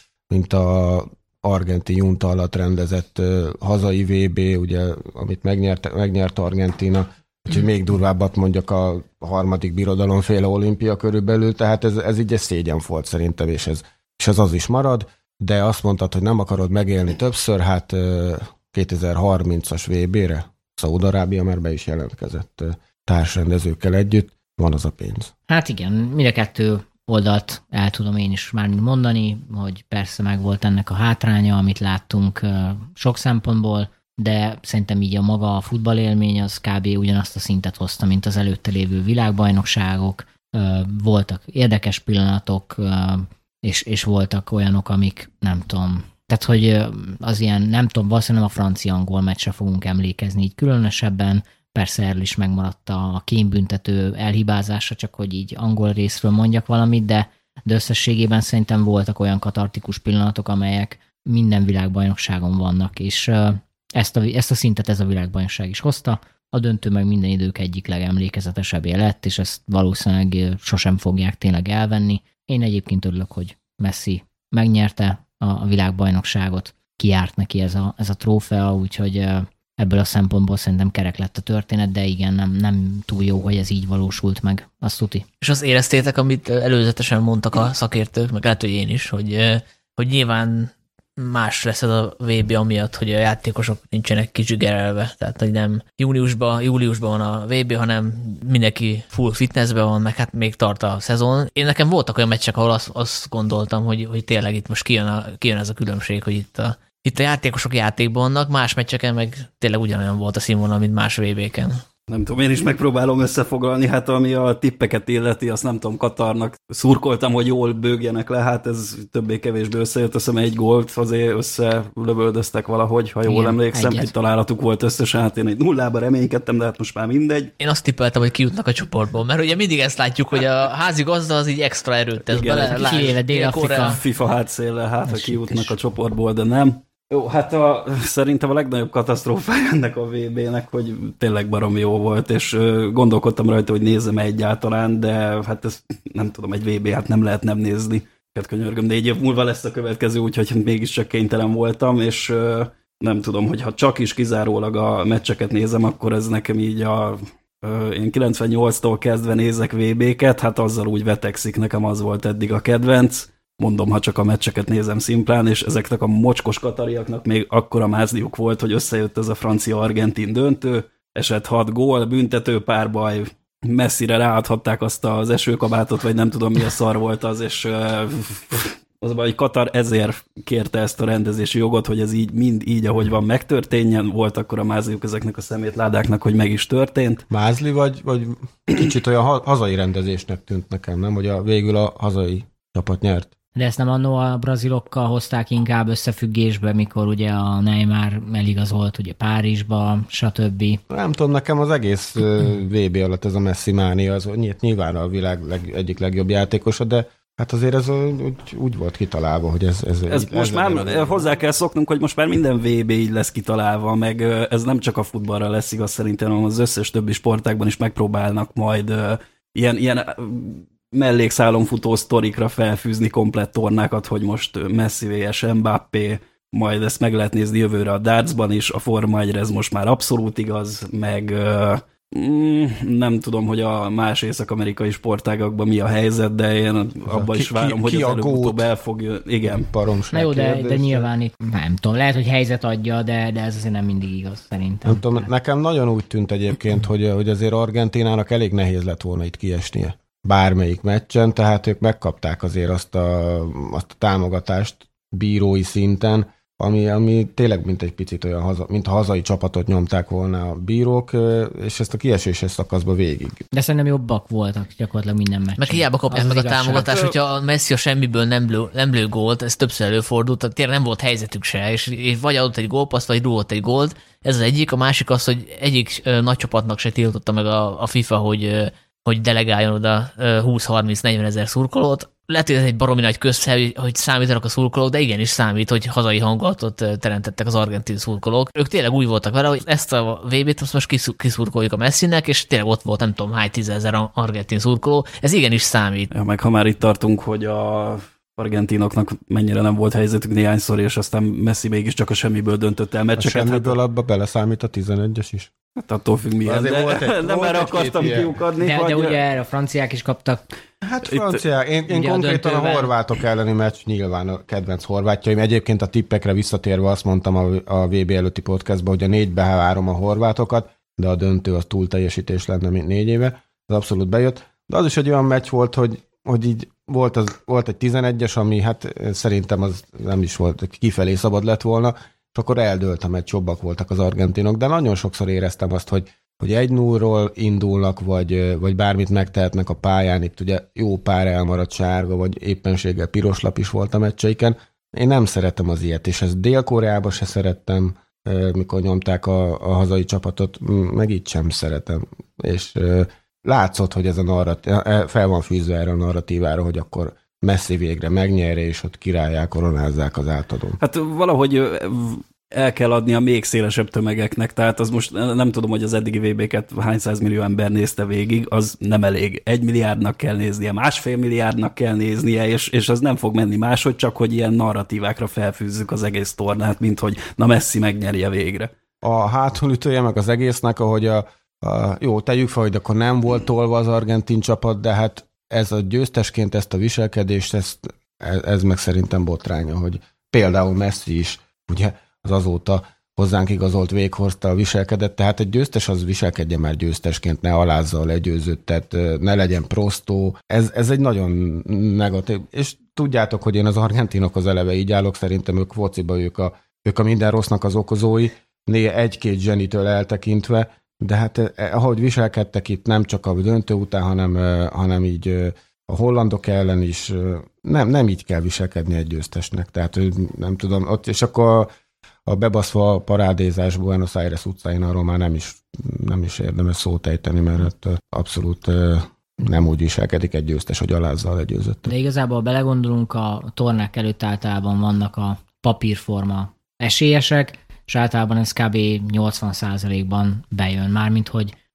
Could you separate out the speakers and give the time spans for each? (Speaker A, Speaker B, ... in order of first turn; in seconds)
Speaker A: 0.3-25.3, 187.3-193.3, 200.9-211.3, 237.1-238.7, 239.5-241.1, 244.8-263.4, 303.1-305.5, 306.4-308.4, 310.8-360.8, 379.0-421.7, 422.2-431.9
Speaker B: 25.5-85.2, 123.2-124.1, 132.6-134.0, 135.1-135.8, 193.6-200.8, 240.1-245.3, 263.5-267.0, 308.6-310.4, 311.9-312.9, 431.9-441.5
Speaker C: 85.4-111.8, 127.6-134.0, 265.6-296.1
Speaker D: 112.1-127.5, 132.3-133.2, 133.7-187.2, 210.1-239.7, 296.1-303.8, 305.8-309.2, 311.1-311.4, 360.8-378.7